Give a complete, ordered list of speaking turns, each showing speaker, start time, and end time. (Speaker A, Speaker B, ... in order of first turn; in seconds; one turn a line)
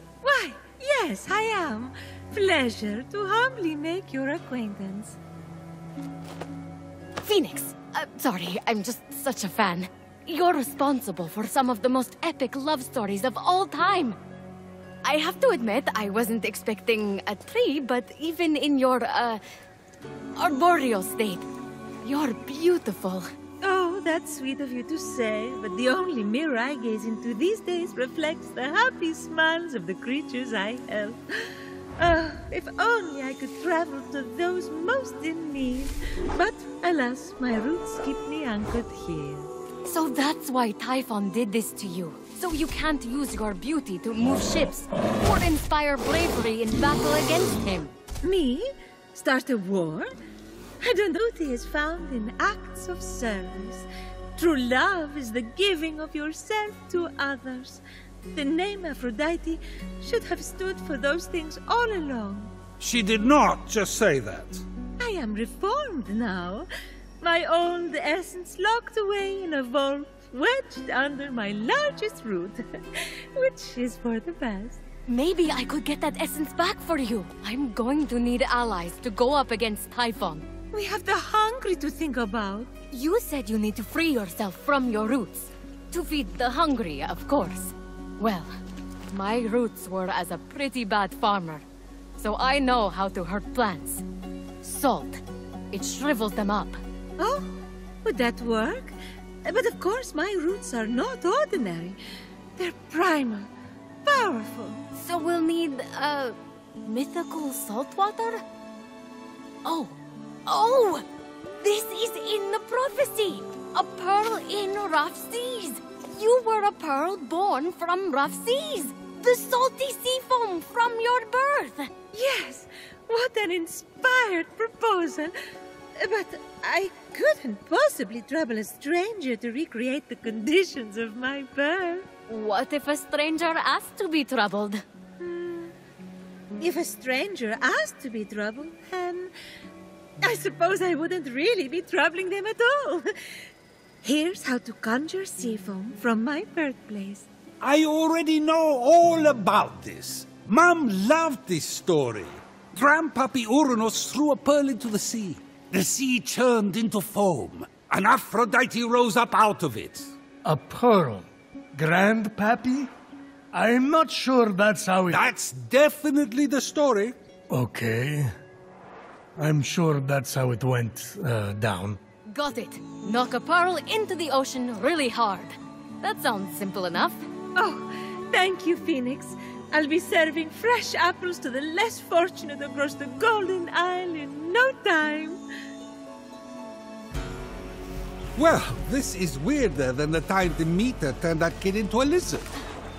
Speaker A: 0.2-5.2
Speaker B: 7.2-14.2
Speaker B: 15.0-19.4
Speaker B: 20.4-21.4
Speaker B: 22.0-23.3
Speaker A: 23.6-39.5
Speaker B: 39.9-47.9
Speaker A: 48.2-50.1
Speaker A: 50.8-57.8
Speaker A: 58.3-62.5
Speaker C: 62.8-64.6
Speaker A: 65.0-66.7
Speaker A: 67.2-74.8
Speaker B: 75.1-80.5
Speaker A: 80.7-82.7
Speaker B: 82.9-88.6
Speaker B: 89.1-91.6
Speaker B: 92.2-94.0
Speaker B: 94.6-95.2
Speaker B: 95.7-96.8
Speaker A: 97.2-102.0
Speaker A: 102.6-103.5
Speaker A: 104.0-104.8
Speaker B: 104.9-108.4
Speaker B: 109.6-111.1
Speaker B: 111.6-121.9
Speaker A: 122.1-125.3
Speaker A: 126.0-132.1
Speaker B: 132.3-134.8
Speaker A: 135.2-135.7
Speaker A: 136.6-139.3
Speaker A: 140.2-143.3
Speaker A: 144.0-147.3
Speaker C: 147.6-160.1
Speaker D: 160.4-162.9
Speaker D: 163.5-165.2
Speaker C: 165.1-167.2
Speaker D: 167.5-168.3
Speaker D: 169.4-172.0
Speaker B: 172.3-177.2
Speaker A: 177.6-185.4
Speaker C: 188.3-192.5